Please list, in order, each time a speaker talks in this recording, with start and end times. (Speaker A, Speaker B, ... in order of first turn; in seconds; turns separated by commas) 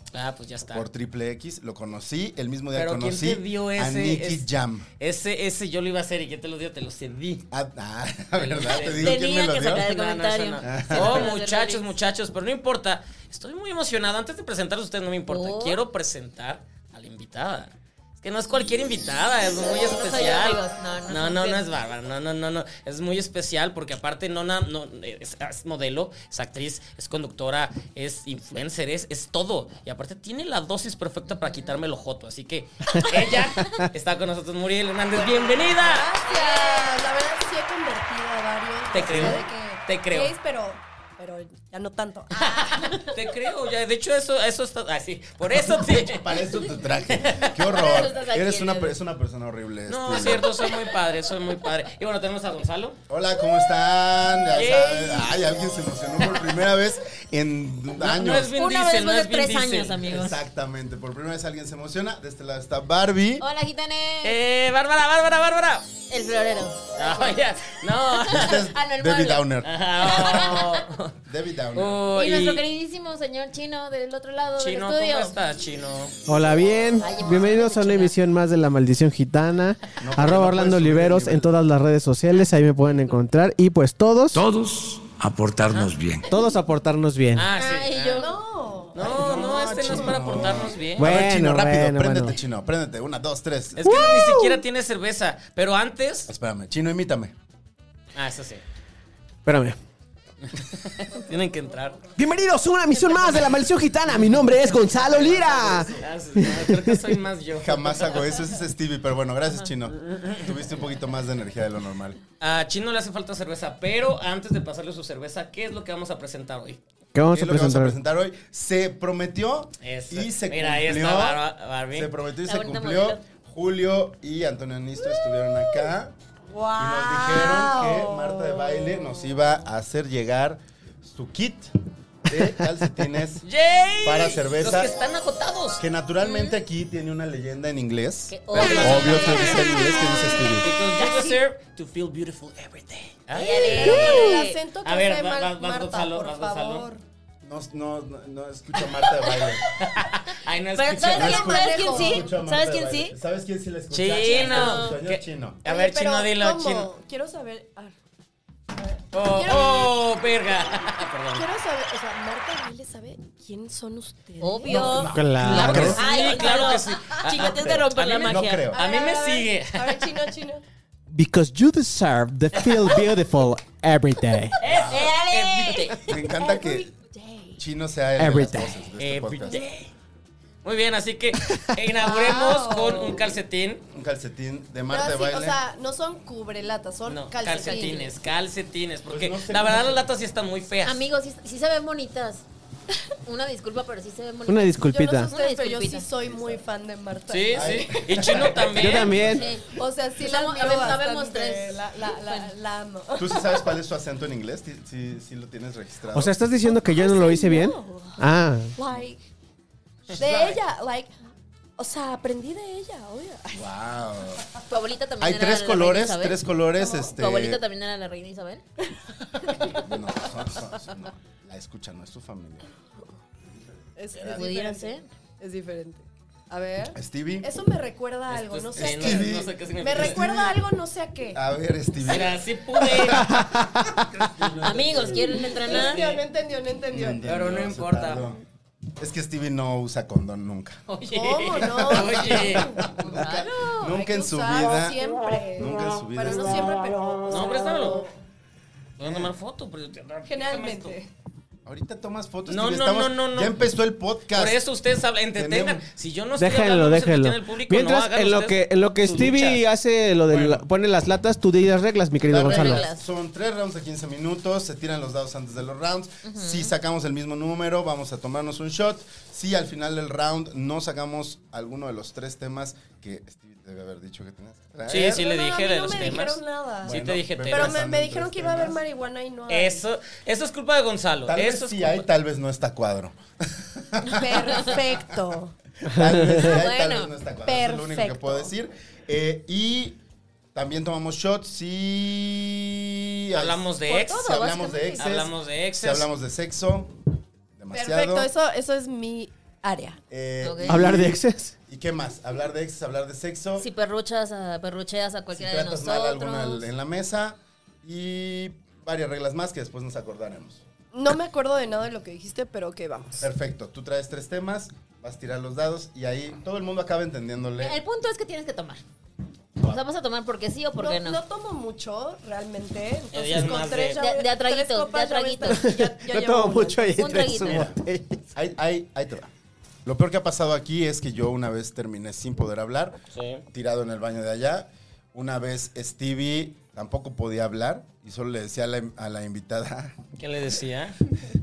Speaker A: 0.1-0.9, Speaker B: 0.7-4.9, Speaker A: 2.7-4.5, Speaker A: 5.0-7.5, Speaker B: 7.5-9.9, Speaker A: 8.3-36.1, Speaker C: 8.8-11.8, Speaker B: 10.6-11.3, Speaker C: 15.3-15.8, Speaker C: 19.9-21.7, Speaker D: 35.1-43.1, Speaker C: 36.2-36.9, Speaker A: 38.9-40.3, Speaker B: 39.1-39.4, Speaker A: 42.4-46.4, Speaker B: 45.9-50.6, Speaker A: 47.2-47.6, Speaker C: 47.6-48.9, Speaker A: 49.9-53.0, Speaker B: 53.1-58.5, Speaker A: 54.5-55.3, Speaker A: 58.0-60.2, Speaker C: 58.5-60.4, Speaker B: 60.0-63.5, Speaker C: 63.4-64.4, Speaker A: 64.2-65.9, Speaker C: 66.1-67.3, Speaker A: 67.0-68.6, Speaker C: 68.2-69.4, Speaker B: 68.3-70.5, Speaker A: 69.6-71.2, Speaker C: 70.0-70.8, Speaker B: 71.2-72.0, Speaker A: 71.7-72.6, Speaker C: 72.1-75.3, Speaker A: 74.5-76.2, Speaker E: 76.3-84.4, Speaker C: 77.0-78.2, Speaker B: 80.0-81.5, Speaker F: 84.3-86.3, Speaker A: 85.7-85.9, Speaker E: 86.3-87.5, Speaker A: 87.3-88.3, Speaker C: 87.5-88.3, Speaker D: 88.2-90.0, Speaker A: 88.9-91.1, Speaker B: 89.0-93.9, Speaker C: 89.0-89.9, Speaker E: 91.0-92.3, Speaker A: 93.8-96.3, Speaker E: 93.8-94.6, Speaker B: 96.3-97.3, Speaker A: 98.1-98.6, Speaker E: 99.5-99.8, Speaker A: 100.4-102.1, Speaker E: 102.2-107.0, Speaker B: 105.0-106.0, Speaker A: 105.4-108.4, Speaker B: 107.5-112.2, Speaker A: 110.0-110.5, Speaker A: 112.4-116.8, Speaker E: 117.1-118.0, Speaker B: 117.3-126.1, Speaker A: 119.8-122.1, Speaker C: 122.4-123.2, Speaker D: 126.5-129.3, Speaker B: 126.8-131.7, Speaker B: 132.2-133.5, Speaker A: 133.4-135.8, Speaker B: 134.0-134.9, Speaker B: 135.8-140.7, Speaker C: 136.2-136.6, Speaker C: 138.3-140.4, Speaker A: 138.5-139.7, Speaker A: 140.6-144.2, Speaker C: 141.0-141.4, Speaker C: 143.3-144.6, Speaker D: 143.4-147.0, Speaker E: 143.9-144.4, Speaker A: 144.8-146.9, Speaker B: 147.4-149.7, Speaker A: 149.8-151.4, Speaker C: 150.7-153.2, Speaker B: 151.0-155.6, Speaker D: 151.1-152.3, Speaker A: 153.9-156.9, Speaker C: 154.2-155.0, Speaker D: 155.6-157.9, Speaker D: 158.8-160.0, Speaker A: 159.1-161.4, Speaker D: 161.3-165.1, Speaker C: 164.4-168.8, Speaker B: 164.7-166.3, Speaker E: 165.1-166.0, Speaker A: 165.4-170.1, Speaker D: 166.1-166.7, Speaker B: 167.3-168.8, Speaker D: 168.7-170.6, Speaker E: 171.1-174.6, Speaker A: 172.5-172.9, Speaker A: 174.6-176.0, Speaker C: 174.7-176.2, Speaker B: 176.0-176.9, Speaker D: 176.3-177.6, Speaker B: 177.6-179.6, Speaker E: 178.2-178.7, Speaker A: 179.0-179.9, Speaker A: 180.6-183.8, Speaker E: 181.4-181.7, Speaker D: 182.0-183.2, Speaker B: 183.9-185.6, Speaker D: 184.9-188.1, Speaker A: 187.1-191.0, Speaker B: 189.1-190.1, Speaker C: 190.8-192.4, Speaker C: 193.2-196.1, Speaker E: 194.5-195.3, Speaker D: 194.8-198.4, Speaker B: 196.2-196.6, Speaker A: 197.3-199.4, Speaker B: 197.5-198.7, Speaker E: 198.7-199.4, Speaker C: 199.1-202.5, Speaker D: 199.6-203.7, Speaker B: 203.2-206.4, Speaker E: 206.1-208.7, Speaker D: 206.6-209.2, Speaker B: 210.1-210.6, Speaker A: 210.1-210.6, Speaker D: 210.1-211.1, Speaker D: 211.8-213.6, Speaker B: 213.5-214.5, Speaker C: 214.7-216.4, Speaker B: 215.2-217.6, Speaker D: 216.8-217.1, Speaker C: 217.1-218.6, Speaker D: 219.4-219.8, Speaker B: 219.7-222.7, Speaker D: 224.0-231.4, Speaker B: 224.0-224.5, Speaker C: 224.3-225.1, Speaker B: 226.9-227.5, Speaker A: 228.3-230.2, Speaker B: 228.7-230.6, Speaker B: 231.3-233.3, Speaker A: 232.0-233.4, Speaker E: 233.2-234.1, Speaker B: 233.8-235.3, Speaker C: 234.4-236.2, Speaker A: 234.7-235.1, Speaker D: 235.6-237.2, Speaker A: 235.6-236.1, Speaker B: 236.9-238.4, Speaker A: 237.3-238.2, Speaker B: 239.0-240.8, Speaker A: 240.9-242.7, Speaker D: 241.0-243.0, Speaker B: 241.6-245.0, Speaker C: 242.9-243.9, Speaker D: 243.8-248.1, Speaker B: 245.5-246.8, Speaker A: 247.3-248.0, Speaker A: 249.0-250.9, Speaker B: 249.0-249.3, Speaker D: 250.2-251.1, Speaker B: 251.6-254.6, Speaker A: 252.5-253.7, Speaker A: 254.3-259.6, Speaker B: 255.3-255.8, Speaker E: 256.4-262.9, Speaker B: 260.3-260.6, Speaker B: 262.2-275.2, Speaker C: 262.4-263.0, Speaker C: 266.2-266.7, Speaker A: 274.9-277.8, Speaker D: 274.9-279.8, Speaker B: 276.8-278.8, Speaker A: 279.5-282.1, Speaker B: 281.3-285.0, Speaker D: 284.1-285.5, Speaker B: 285.8-290.0, Speaker C: 286.3-287.1, Speaker D: 287.4-288.5, Speaker B: 290.5-297.0, Speaker A: 293.3-294.3, Speaker D: 293.9-295.1, Speaker A: 295.0-296.1, Speaker B: 297.6-298.3, Speaker D: 297.7-300.0, Speaker B: 300.1-303.7, Speaker C: 300.4-300.9, Speaker E: 300.6-301.5, Speaker C: 303.6-306.6, Speaker B: 305.3-310.6, Speaker D: 310.9-313.3, Speaker B: 313.2-317.8, Speaker C: 317.6-318.8, Speaker B: 319.6-319.8, Speaker C: 319.6-321.2, Speaker D: 320.8-327.3, Speaker A: 323.1-324.0, Speaker C: 324.0-325.7, Speaker E: 325.5-328.2, Speaker C: 326.9-327.7, Speaker B: 327.3-327.8, Speaker B: 328.3-329.3, Speaker B: 329.8-333.0, Speaker A: 333.1-333.4, Speaker B: 333.5-340.0, Speaker A: 340.2-341.1